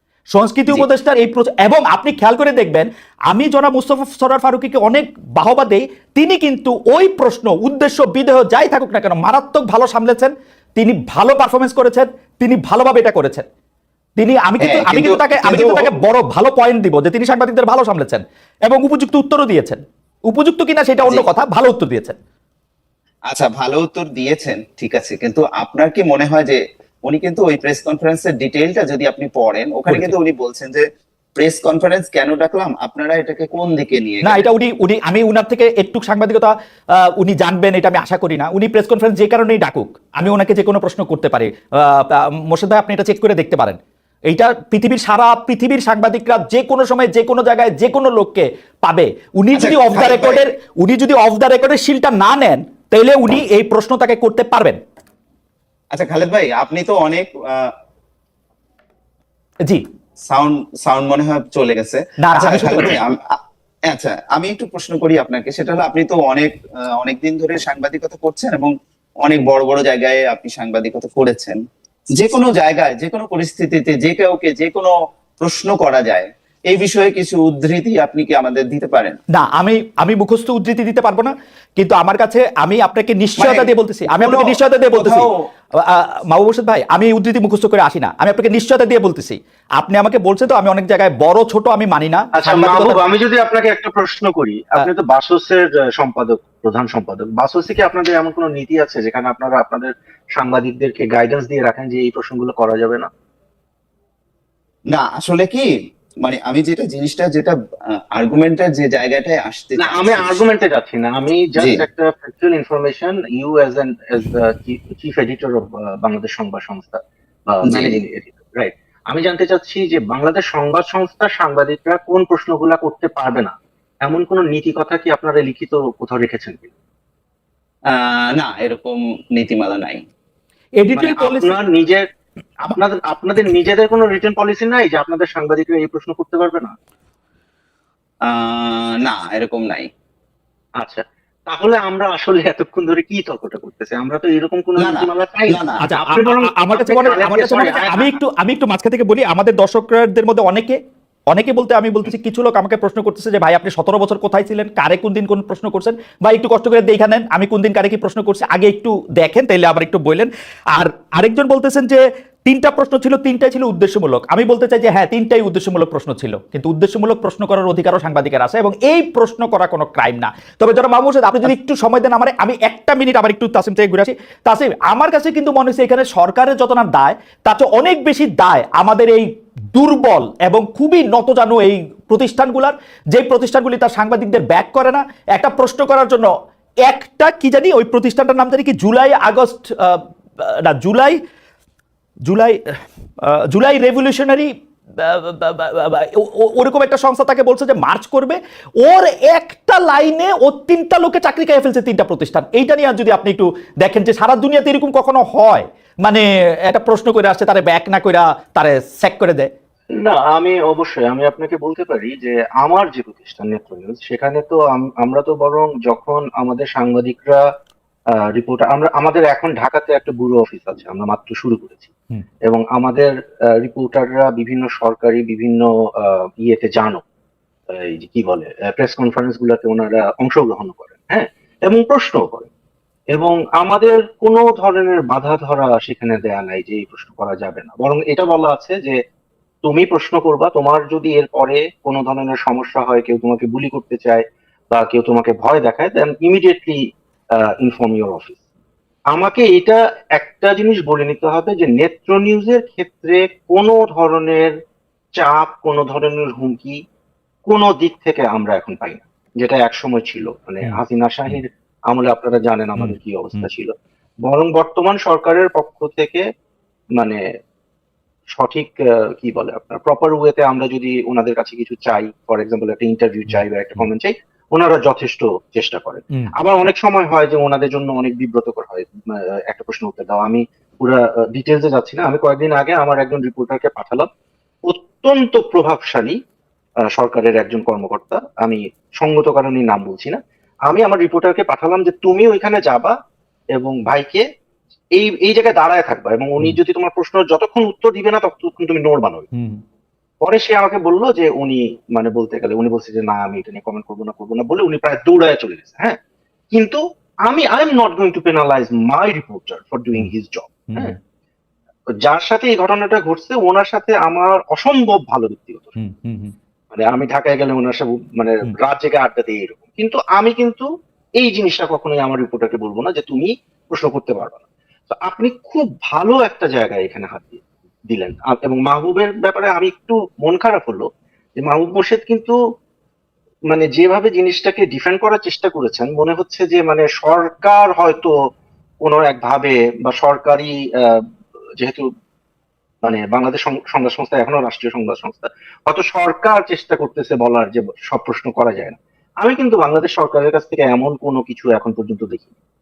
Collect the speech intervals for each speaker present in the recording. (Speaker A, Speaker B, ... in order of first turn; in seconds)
Speaker A: 0.3-13.4, 14.2-22.1, 29.9-30.1, 34.2-43.8, 44.3-54.8, 62.2-63.0, 79.3-93.0, 130.8-131.6, 145.8-150.8, 151.3-186.3, 186.8-191.2, 192.2-192.6, 193.2-209.5, 260.6-261.4, 262.8-263.5, 299.3-299.6, 310.7-310.9, 315.8-316.3
Speaker B: 14.6-16.0, 23.3-30.8, 31.4-34.4, 49.5-50.4, 55.9-57.7, 60.3-71.6, 72.1-79.2, 83.4-85.4, 104.9-105.7, 106.2-110.4, 111.6-111.8, 117.7-117.9, 127.9-130.0, 138.2-139.9, 144.8-145.8
Speaker C: 92.3-103.1, 109.8-126.7, 130.9-132.0, 132.7-136.7, 140.8-148.1, 210.0-217.4, 218.2-221.9, 222.5-227.0, 227.7-232.5, 233.1-238.9, 239.6-246.8, 247.4-248.4, 249.1-254.5, 255.2-256.8, 257.5-263.7, 264.2-266.2, 268.3-284.1, 284.6-286.1, 286.9-292.9, 293.5-294.2, 294.9-299.3, 300.2-306.0, 306.5-310.9, 312.0-315.8, 316.7-320.7, 321.2-332.4, 333.5-338.1, 338.8-341.0, 341.6-341.8, 342.8-352.3